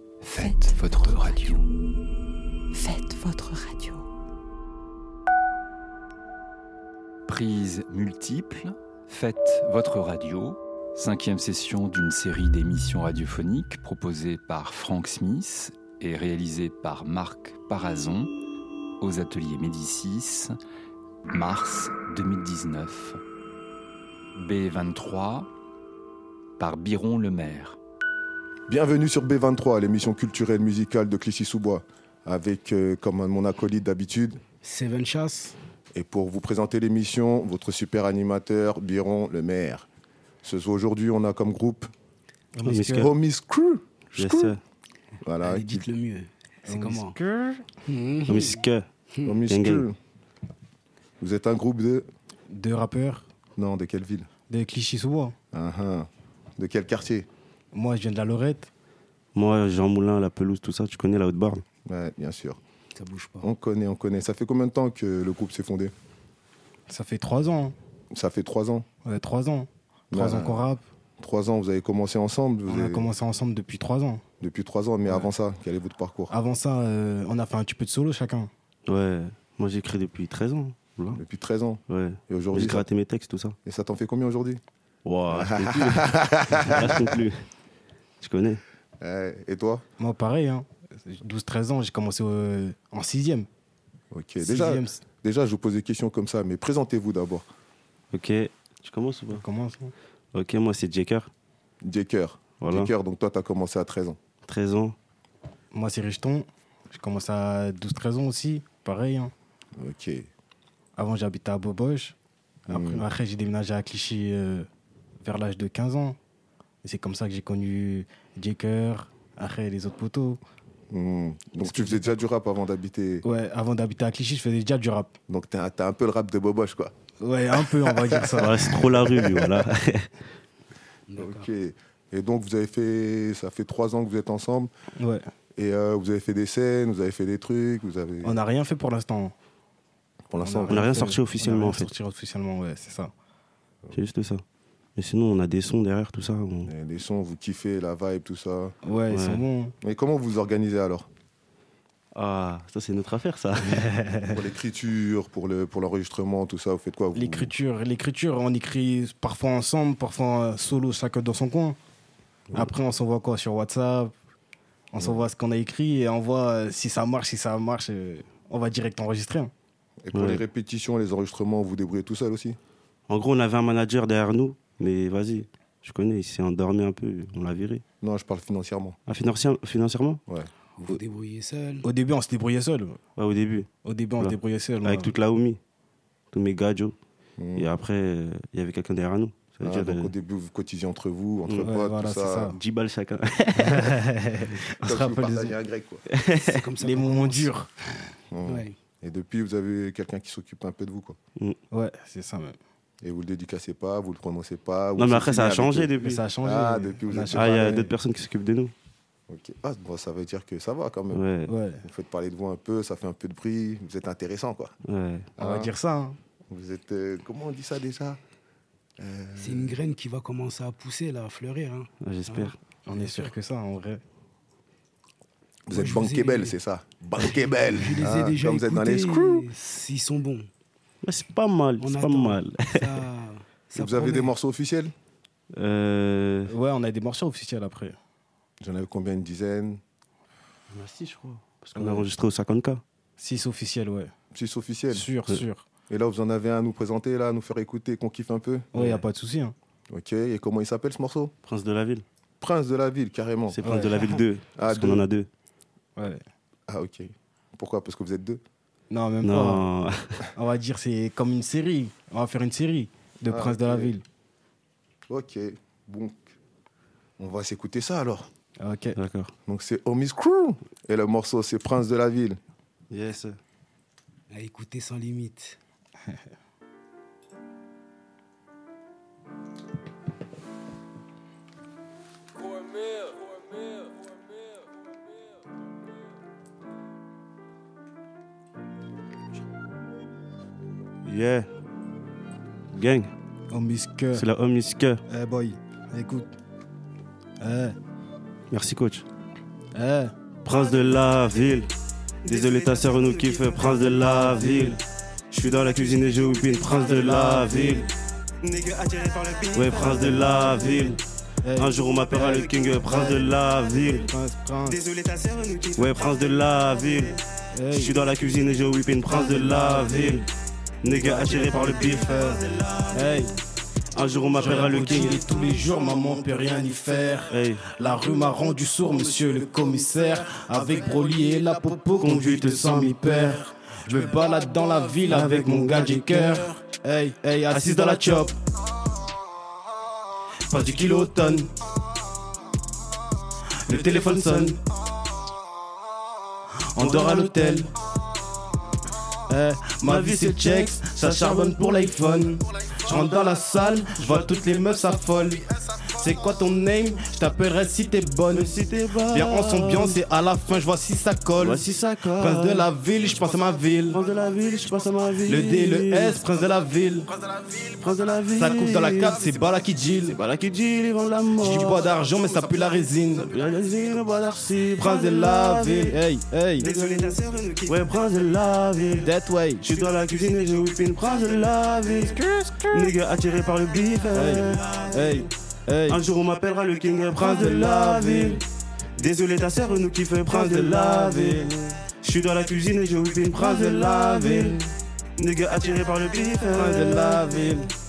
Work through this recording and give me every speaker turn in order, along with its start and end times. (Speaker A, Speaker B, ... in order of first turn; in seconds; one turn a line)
Speaker A: 0.2-1.7
Speaker B: 0.4-1.5
Speaker B: 2.7-4.1
Speaker A: 7.2-18.3
Speaker A: 19.0-20.5
Speaker A: 21.3-23.2
Speaker A: 24.3-25.5
Speaker A: 26.6-27.8
Speaker C: 28.7-34.4
Speaker D: 34.6-35.6
Speaker C: 35.9-39.9
Speaker C: 40.4-41.9
Speaker E: 42.5-43.1
Speaker F: 42.6-43.1
Speaker C: 42.9-44.6
Speaker F: 44.1-44.6
Speaker C: 45.2-45.9
Speaker D: 45.4-47.1
Speaker E: 46.7-47.6
Speaker D: 47.9-48.6
Speaker F: 48.3-48.8
Speaker C: 49.2-50.0
Speaker F: 49.5-49.9
Speaker C: 51.2-52.1
Speaker E: 52.5-53.3
Speaker C: 53.5-54.3
Speaker E: 54.5-55.4
Speaker C: 55.5-57.3
Speaker E: 57.7-58.7
Speaker F: 59.4-61.6
Speaker C: 61.8-62.6
Speaker D: 63.0-63.5
Speaker C: 63.4-65.9
Speaker E: 66.9-67.8
Speaker C: 68.1-68.9
Speaker E: 69.0-70.8
Speaker C: 70.1-70.6
Speaker C: 71.2-73.1
Speaker E: 72.7-74.2
Speaker C: 74.4-76.3
Speaker E: 76.3-78.5
Speaker F: 78.9-81.2
Speaker C: 81.1-82.9
Speaker F: 81.9-83.6
Speaker C: 83.6-84.6
Speaker F: 85.0-87.4
Speaker C: 85.3-87.2
Speaker F: 88.2-88.6
Speaker C: 89.0-89.8
Speaker E: 90.0-93.5
Speaker C: 94.1-97.5
Speaker E: 94.4-95.0
Speaker F: 98.1-99.4
Speaker E: 99.3-99.9
Speaker F: 100.3-101.3
Speaker C: 101.8-104.2
Speaker F: 102.6-102.9
Speaker F: 104.5-105.0
Speaker E: 105.7-109.3
Speaker C: 109.8-110.3
Speaker E: 111.0-112.2
Speaker C: 112.7-113.1
Speaker E: 112.7-114.7
Speaker E: 115.2-116.2
Speaker E: 116.8-120.4
Speaker C: 120.9-123.2
Speaker E: 121.6-122.1
Speaker E: 123.2-125.1
Speaker C: 125.3-126.9
Speaker E: 127.2-128.8
Speaker C: 127.5-129.6
Speaker F: 128.4-130.1
Speaker D: 131.1-131.5
Speaker C: 131.2-134.7
Speaker E: 135.0-135.3
Speaker C: 135.6-138.4
Speaker E: 138.2-139.3
Speaker C: 140.3-140.9
Speaker E: 140.3-143.1
Speaker F: 140.7-141.9
Speaker F: 143.9-144.4
Speaker F: 144.9-146.7
Speaker C: 146.6-148.7
Speaker E: 148.8-149.7
Speaker F: 149.1-149.4
Speaker C: 149.8-151.1
Speaker F: 152.1-154.0
Speaker E: 153.8-154.3
Speaker C: 154.2-157.5
Speaker E: 157.1-161.8
Speaker E: 162.5-164.1
Speaker E: 164.9-169.5
Speaker C: 164.9-165.3
Speaker C: 170.0-172.6
Speaker F: 170.1-170.4
Speaker F: 173.1-177.8
Speaker C: 178.0-179.0
Speaker F: 179.1-180.2
Speaker D: 180.8-181.9
Speaker E: 181.8-183.0
Speaker F: 183.2-185.6
Speaker E: 183.8-185.1
Speaker F: 186.3-186.9
Speaker C: 187.4-187.7
Speaker F: 187.5-190.1
Speaker C: 189.6-192.5
Speaker F: 191.4-191.7
Speaker E: 191.6-192.6
Speaker F: 192.5-194.0
Speaker E: 193.6-195.6
Speaker C: 194.8-196.0
Speaker F: 196.1-196.6
Speaker D: 196.4-197.5
Speaker E: 196.8-198.1
Speaker C: 198.3-201.2
Speaker D: 198.4-198.8
Speaker E: 201.7-202.6
Speaker C: 203.0-205.9
Speaker F: 204.9-206.2
Speaker E: 206.0-207.9
Speaker C: 206.4-207.7
Speaker F: 207.3-208.7
Speaker C: 209.3-211.2
Speaker F: 211.1-211.5
Speaker E: 211.5-211.8
Speaker C: 211.8-214.7
Speaker F: 214.8-215.3
Speaker C: 215.4-215.7
Speaker E: 215.4-216.2
Speaker C: 216.5-218.2
Speaker C: 219.0-219.8
Speaker D: 219.4-223.3
Speaker F: 222.0-222.5
Speaker E: 222.8-224.0
Speaker C: 225.7-229.5
Speaker D: 225.7-226.6
Speaker D: 227.6-230.5
Speaker F: 231.0-232.8
Speaker D: 231.8-234.3
Speaker C: 233.8-234.9
Speaker F: 235.5-236.5
Speaker E: 236.5-238.0
Speaker C: 238.6-239.8
Speaker F: 240.7-242.8
Speaker E: 241.8-242.1
Speaker E: 243.2-244.1
Speaker C: 244.3-245.1
Speaker E: 244.9-245.6
Speaker C: 245.9-248.7
Speaker E: 248.7-249.5
Speaker F: 248.7-249.0
Speaker C: 249.9-251.3
Speaker F: 251.4-252.0
Speaker C: 252.4-253.6
Speaker F: 253.5-255.3
Speaker E: 253.6-254.1
Speaker C: 254.6-255.1
Speaker E: 255.9-256.2
Speaker C: 256.7-258.4
Speaker E: 258.9-259.7
Speaker F: 259.2-260.3
Speaker E: 260.3-264.0
Speaker C: 263.2-263.9
Speaker C: 265.1-266.3
Speaker C: 267.2-268.3
Speaker E: 268.6-269.0
Speaker F: 268.9-269.3
Speaker C: 269.5-272.4
Speaker F: 272.9-273.4
Speaker D: 274.3-275.6
Speaker F: 291.1-291.5
Speaker F: 292.7-293.1
Speaker E: 293.5-294.2
Speaker F: 294.1-295.0
Speaker E: 295.1-296.4
Speaker E: 297.4-297.8
Speaker F: 298.5-299.1
Speaker E: 299.7-300.1
Speaker F: 300.4-301.7
Speaker F: 302.2-304.8
Speaker D: 302.3-303.4
Speaker E: 303.6-304.8
Speaker F: 305.3-307.9
Speaker E: 306.7-307.9
Speaker D: 308.5-309.6
Speaker F: 309.5-311.0
Speaker E: 309.8-314.8
Speaker F: 311.6-314.1
Speaker F: 314.7-320.2
Speaker E: 317.5-318.0
Speaker E: 319.1-320.3
Speaker F: 320.8-323.1
Speaker E: 320.9-323.3
Speaker F: 323.9-325.3
Speaker E: 324.3-338.3
Speaker F: 327.3-327.7
Speaker F: 332.0-333.4
Speaker F: 335.0-336.5
Speaker F: 337.5-338.3
Speaker E: 340.5-341.5
Speaker F: 340.5-341.4
Speaker F: 343.7-344.6
Speaker E: 343.7-344.6
Speaker E: 346.7-347.7
Speaker F: 346.8-347.7
Speaker E: 349.3-358.6
Speaker F: 349.8-352.3
Speaker F: 352.9-353.2
Speaker F: 358.3-360.0
Speaker E: 359.1-364.0
Speaker F: 361.4-362.7
Speaker F: 363.9-366.2
Speaker E: 365.2-367.1
Speaker F: 367.8-369.4
Speaker E: 368.3-370.2
Speaker F: 370.1-371.9
Speaker E: 371.4-373.3
Speaker F: 373.1-376.0
Speaker E: 374.8-376.7
Speaker D: 376.6-377.8
Speaker F: 376.6-385.3
Speaker E: 379.0-379.6
Speaker E: 382.0-382.9
Speaker E: 384.1-386.0
Speaker F: 385.9-388.4
Speaker E: 387.1-388.4
Speaker F: 389.0-394.6
Speaker E: 390.2-391.8
Speaker E: 393.3-394.7
Speaker F: 395.2-397.7
Speaker E: 396.5-397.7